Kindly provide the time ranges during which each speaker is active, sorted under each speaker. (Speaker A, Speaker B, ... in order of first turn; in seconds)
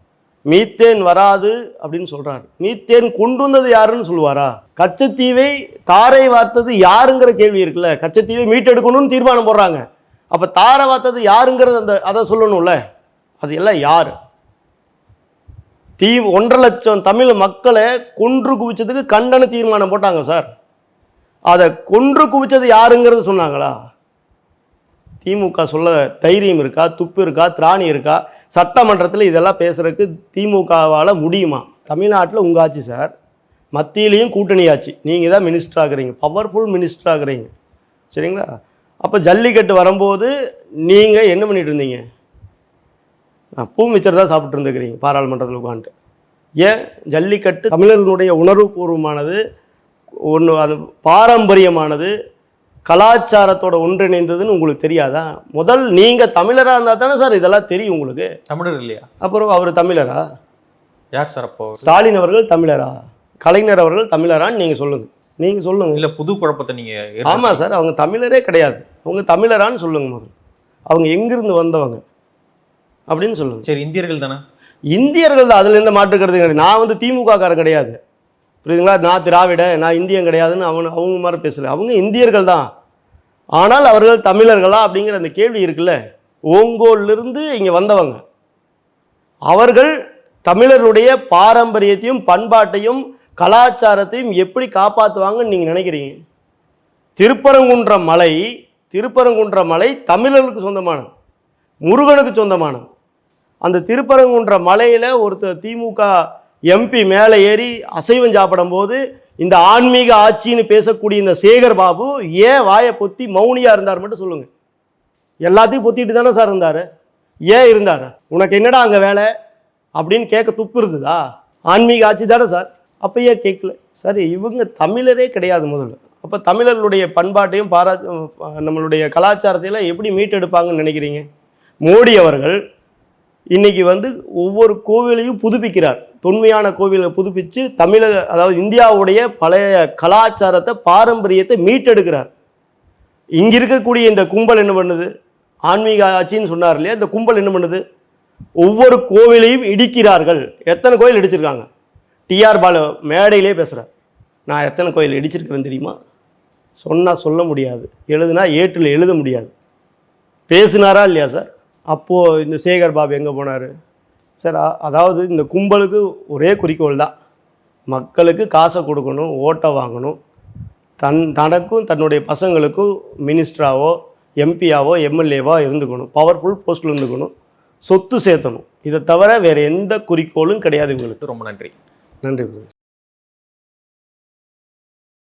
Speaker A: 0.5-12.8, 13.4-14.1, 16.0-20.5, 21.5-23.7, 25.2-33.1, 33.7-37.5, 38.1-38.5, 39.0-40.3, 40.9-42.0, 43.6-45.9, 46.6-49.4, 50.3-52.1, 52.9-58.3, 59.2-60.2, 61.8-66.0, 67.3-70.3, 70.9-72.0, 73.1-73.6, 74.9-78.0, 78.6-82.7, 83.6-86.0, 86.5-88.2, 89.5-89.9, 90.4-96.2, 97.2-101.1, 101.8-102.8, 103.6-106.1, 106.7-114.5, 115.4-116.8, 117.5-119.3, 120.0-131.2, 131.8-132.6, 133.5-142.3, 143.4-145.1, 145.7-147.8, 148.6-151.7, 152.3-153.9, 154.5-155.9, 156.8-159.5, 160.5-163.7, 164.4-167.1, 167.9-170.2, 171.0-177.3, 177.9-181.2, 182.2-182.7
Speaker B: 58.5-59.1, 61.1-62.0, 65.9-67.6, 73.6-74.4, 181.2-181.7